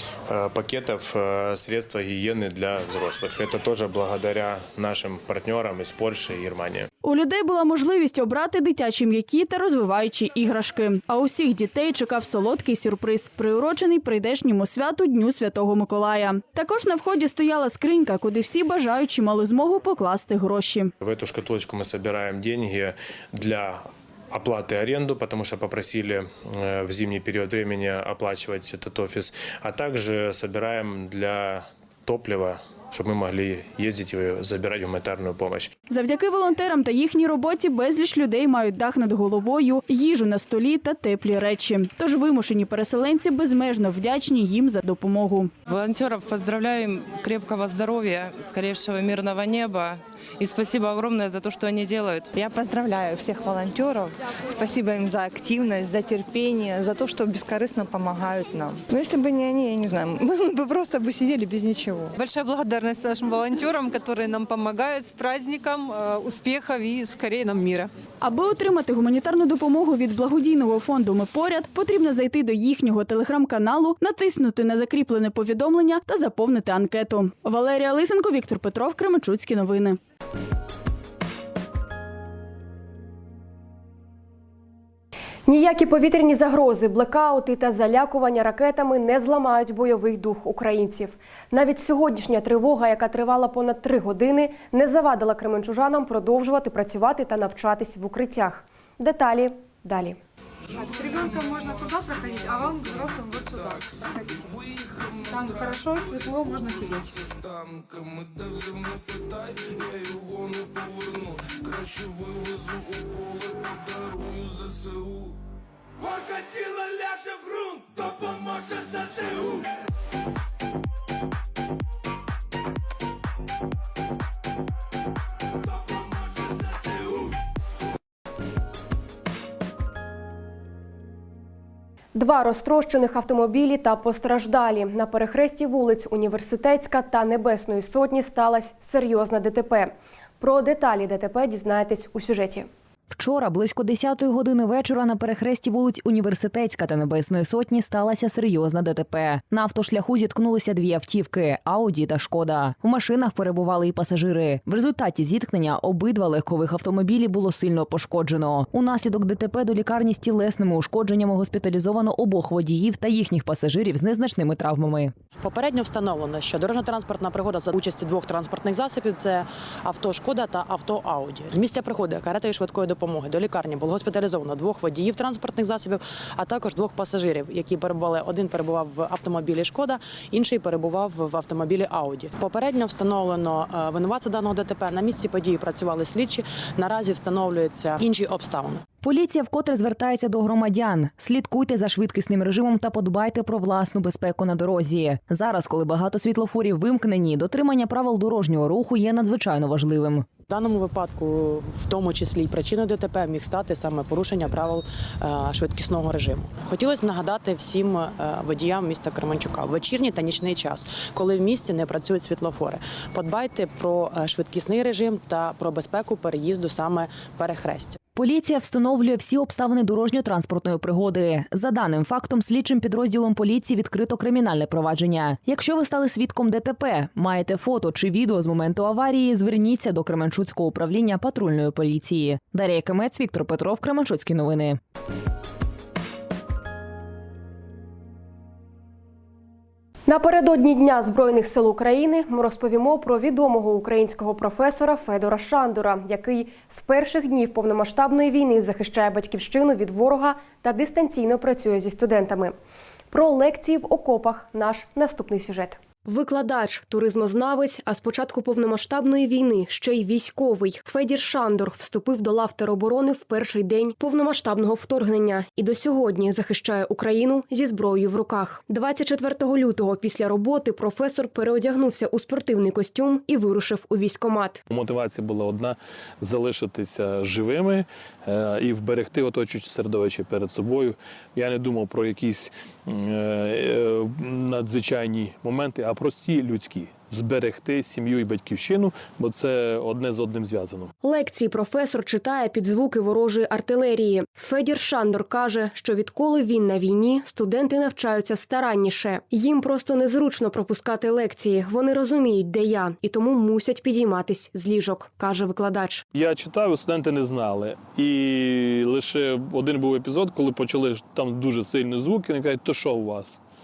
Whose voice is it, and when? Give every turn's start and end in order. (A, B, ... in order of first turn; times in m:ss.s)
0:00.3-0:06.9 A
0:07.0-0:20.9 B
0:21.0-0:35.7 A
0:35.9-0:45.5 B
0:45.7-0:52.2 C
0:52.3-1:03.0 D
1:02.2-1:07.9 E
1:08.2-1:20.0 B
1:25.5-1:40.2 F
1:41.0-1:43.1 G
1:45.4-1:47.0 G
2:12.1-2:22.7 F
2:23.1-2:45.1 H
2:45.4-3:08.8 I
3:09.0-3:20.3 H
3:20.5-3:38.0 I
3:38.2-3:54.8 H
4:00.1-4:12.6 F
4:13.1-4:34.6 F
4:34.7-4:50.9 J
4:51.0-5:06.0 F
5:06.2-5:13.4 J